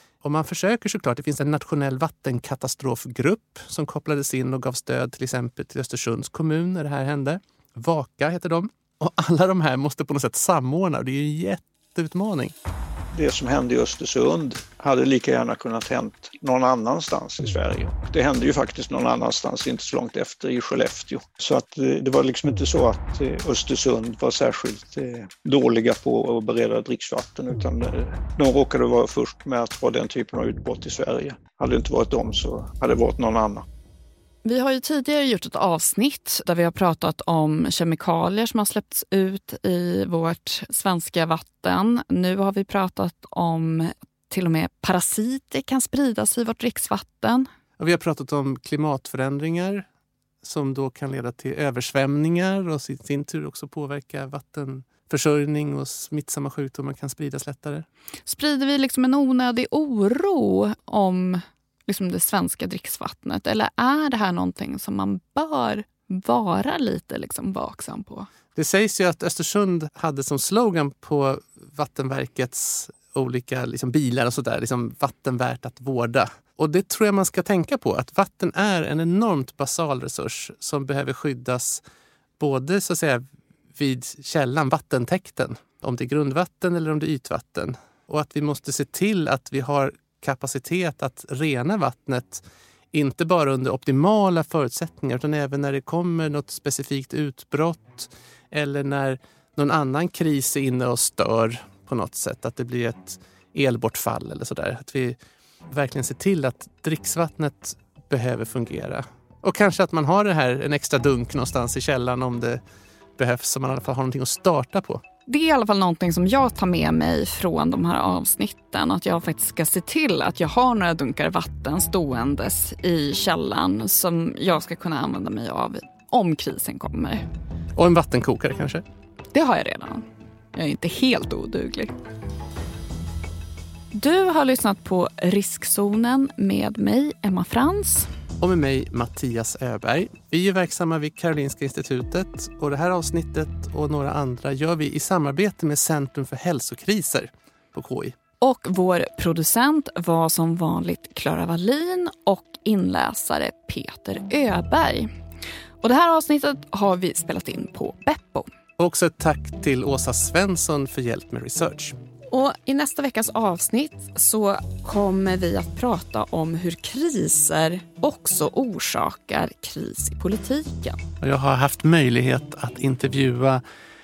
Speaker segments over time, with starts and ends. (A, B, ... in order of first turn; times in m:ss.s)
0:00.2-0:12.5 A
0:13.1-0:33.6 B
0:34.4-0:47.5 C
0:47.8-0:49.8 A
0:50.4-0:57.9 A
0:58.2-1:08.3 C
1:08.5-1:21.8 A
1:22.4-1:23.2 A
1:23.8-1:45.2 A
1:45.7-1:52.6 A
1:53.2-1:55.0 A
1:55.3-2:07.2 C
2:07.8-2:08.8 A
2:09.3-2:11.9 C
2:13.9-2:18.1 C
2:18.4-2:28.2 A
2:28.4-2:35.1 C
2:35.8-2:38.5 C
2:38.8-2:41.9 A
2:42.3-2:51.0 C
2:51.2-2:53.6 A